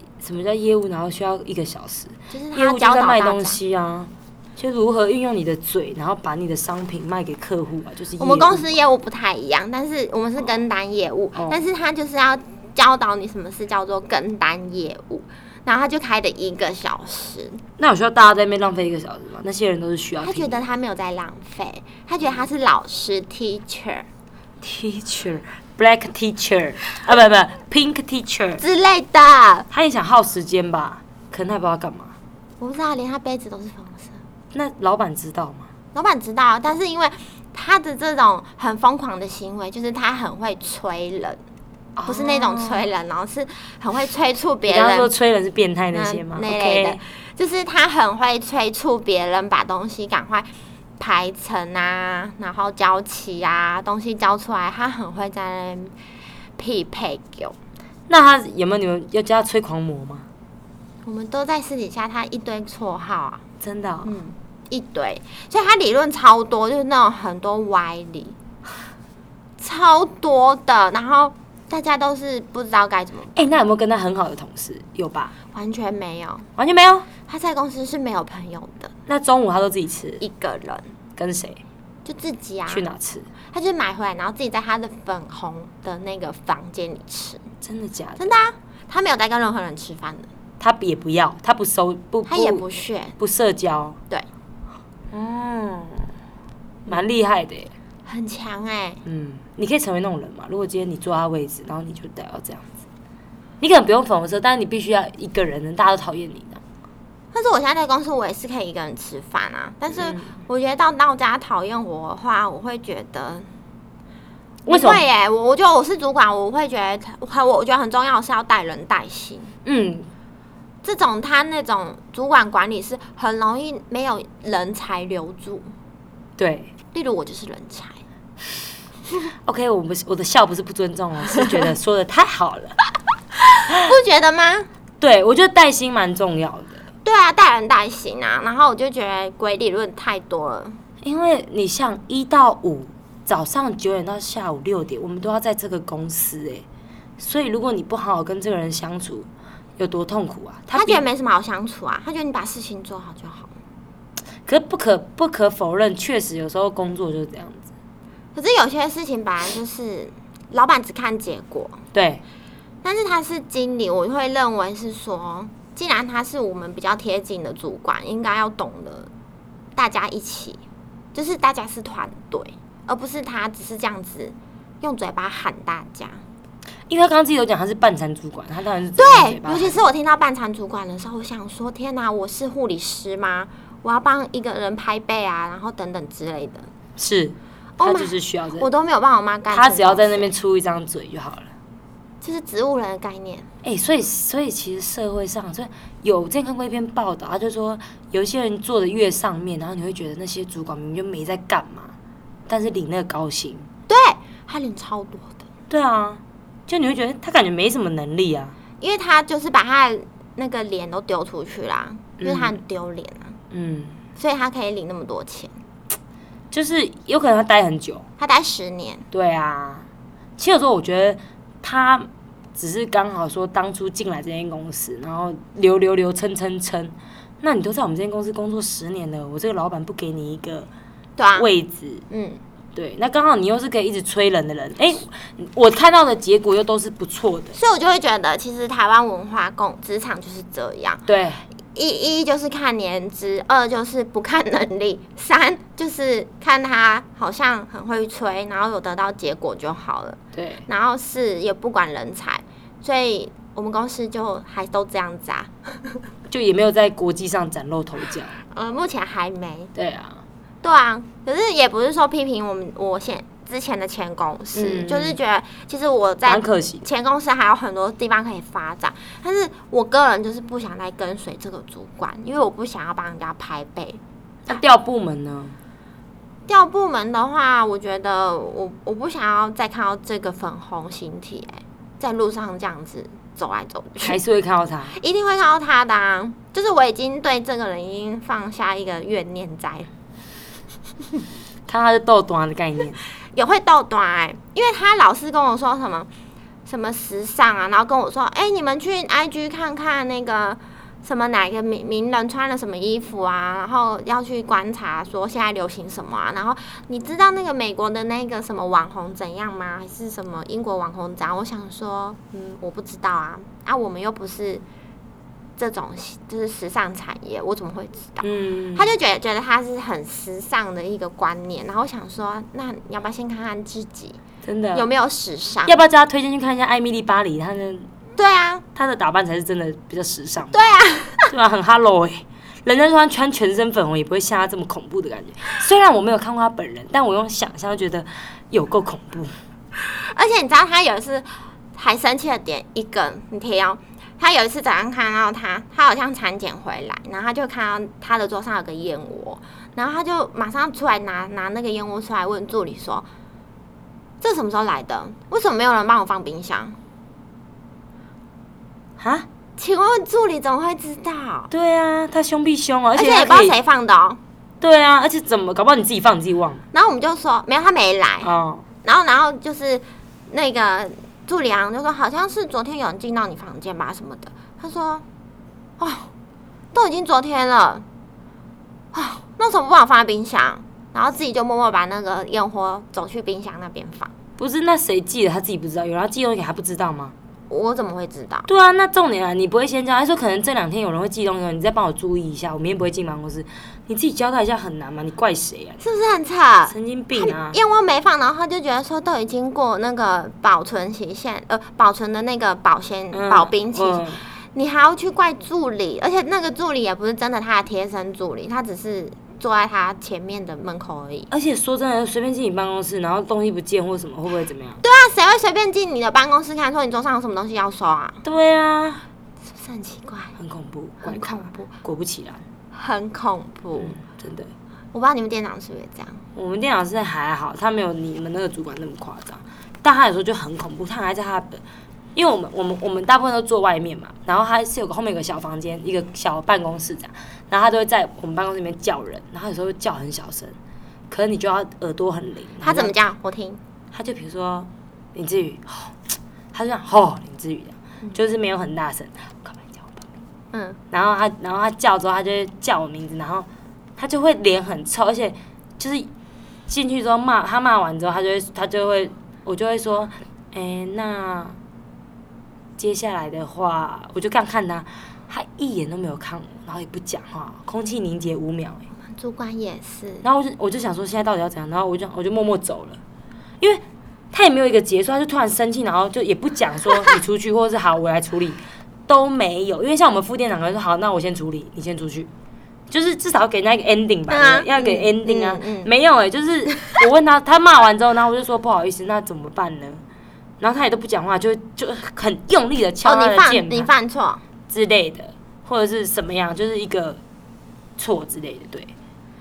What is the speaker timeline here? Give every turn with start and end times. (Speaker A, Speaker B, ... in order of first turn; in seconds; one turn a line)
Speaker A: 0.2-8.7
Speaker B: 2.3-3.6
Speaker B: 8.2-17.6
Speaker A: 17.8-20.6
Speaker B: 20.2-24.1
Speaker A: 24.6-28.6
Speaker B: 28.6-29.7
Speaker A: 29.7-32.1
Speaker B: 32.6-34.2
Speaker A: 34.5-35.7
Speaker B: 35.9-41.4
Speaker A: 42.0-42.8
Speaker B: 42.1-45.1
Speaker A: 44.6-47.0
Speaker B: 45.9-50.5
Speaker B: 51.0-55.9
Speaker B: 56.6-57.5
Speaker A: 58.1-60.3
Speaker B: 61.0-63.4
Speaker A: 63.6-64.1
Speaker B: 64.0-68.3
Speaker B: 69.6-73.5
Speaker A: 73.3-75.3
Speaker B: 75.5-76.5
Speaker A: 76.6-77.1
Speaker B: 77.3-78.9
Speaker A: 79.1-80.2
Speaker B: 80.2-80.9
Speaker A: 81.2-81.6
Speaker B: 82.0-82.8
Speaker A: 82.7-83.3
Speaker B: 83.5-87.4
Speaker A: 87.6-88.3
Speaker B: 88.2-90.3
Speaker A: 90.6-92.6
Speaker B: 92.3-93.2
Speaker A: 93.2-94.0
Speaker A: 95.1-96.1
Speaker A: 96.8-97.7
Speaker B: 98.0-99.0
Speaker A: 99.0-102.7
Speaker A: 103.6-106.6
Speaker B: 107.3-113.5
Speaker A: 109.9-110.3
Speaker A: 114.7-115.0
Speaker B: 114.7-119.5
Speaker A: 119.6-120.1
Speaker B: 120.8-125.7
Speaker A: 126.4-126.7
Speaker B: 126.9-128.0
Speaker A: 129.4-132.8
Speaker B: 133.5-134.7
Speaker A: 135.0-136.8
Speaker B: 137.0-140.8
Speaker A: 141.0-146.6
Speaker A: 147.2-151.0
Speaker B: 150.7-153.5
Speaker A: 154.4-157.7
Speaker B: 158.3-161.8
Speaker A: 161.9-162.2
Speaker B: 162.8-169.1
Speaker B: 169.8-170.6
Speaker B: 171.1-176.2
Speaker A: 176.9-179.8
Speaker B: 179.0-186.7
Speaker A: 187.0-188.7
Speaker B: 187.8-190.3
Speaker A: 189.5-191.5
Speaker B: 192.2-193.5
Speaker A: 193.6-201.9
Speaker A: 202.5-203.7
Speaker B: 203.9-205.4
Speaker A: 205.7-208.6
Speaker B: 208.8-213.4
Speaker A: 212.2-212.6
Speaker A: 213.5-214.0
Speaker B: 214.2-215.5
Speaker A: 216.5-218.0
Speaker B: 218.2-219.1
Speaker A: 219.1-219.9
Speaker A: 220.4-230.7
Speaker B: 231.2-231.5
Speaker A: 231.3-232.0
Speaker B: 232.1-232.4
Speaker A: 232.7-237.6
Speaker B: 237.5-241.0
Speaker A: 241.1-241.4
Speaker B: 241.7-256.0
Speaker A: 250.3-250.6
Speaker A: 256.3-258.4
Speaker B: 258.5-259.7
Speaker A: 259.7-260.2
Speaker B: 260.6-274.6
Speaker A: 264.5-265.2
Speaker A: 266.2-266.8
Speaker A: 274.5-275.6
Speaker B: 276.5-284.2
Speaker A: 284.0-284.9
Speaker B: 284.9-289.9
Speaker A: 291.7-293.0
Speaker B: 293.3-296.1
Speaker B: 296.6-314.6
Speaker B: 315.6-324.2
Speaker A: 318.2-318.9
Speaker A: 324.4-324.9
Speaker B: 324.7-325.8
Speaker A: 325.6-327.9
Speaker B: 328.2-328.6
Speaker A: 328.7-330.6
Speaker B: 330.5-331.3
Speaker A: 331.3-339.3
Speaker B: 339.8-353.1
Speaker B: 354.2-356.8
Speaker A: 359.0-359.3
Speaker B: 359.6-361.5
Speaker A: 361.5-363.6
Speaker B: 362.9-364.2
Speaker A: 364.6-366.6
Speaker B: 366.7-368.3
Speaker A: 368.2-368.6
Speaker B: 368.8-375.0
Speaker B: 375.8-376.1
Speaker B: 376.7-377.8
Speaker B: 378.9-384.1
Speaker A: 384.4-387.1
Speaker B: 387.5-388.5
Speaker A: 388.5-395.8
Speaker B: 395.8-411.3
Speaker A: 396.7-397.6
Speaker A: 403.1-404.2
Speaker A: 411.3-414.8
Speaker B: 414.8-418.2
Speaker A: 418.2-419.0
Speaker B: 419.5-420.3
Speaker A: 420.4-422.4
Speaker B: 421.0-421.7
Speaker B: 422.7-424.0
Speaker A: 423.8-424.5
Speaker B: 424.9-426.2
Speaker A: 426.3-431.6
Speaker A: 432.1-440.5
Speaker A: 441.1-442.9
Speaker B: 442.6-443.6
Speaker A: 443.9-446.0
Speaker A: 446.5-450.1
Speaker B: 450.5-450.8
Speaker A: 450.9-456.1
Speaker A: 456.7-461.6
Speaker A: 462.8-468.8
Speaker B: 469.0-470.2
Speaker A: 470.2-473.0
Speaker A: 473.6-482.3
Speaker A: 482.9-490.0
Speaker B: 484.3-485.9
Speaker A: 490.6-493.9
Speaker B: 493.0-494.4
Speaker A: 494.7-497.2
Speaker A: 498.0-498.9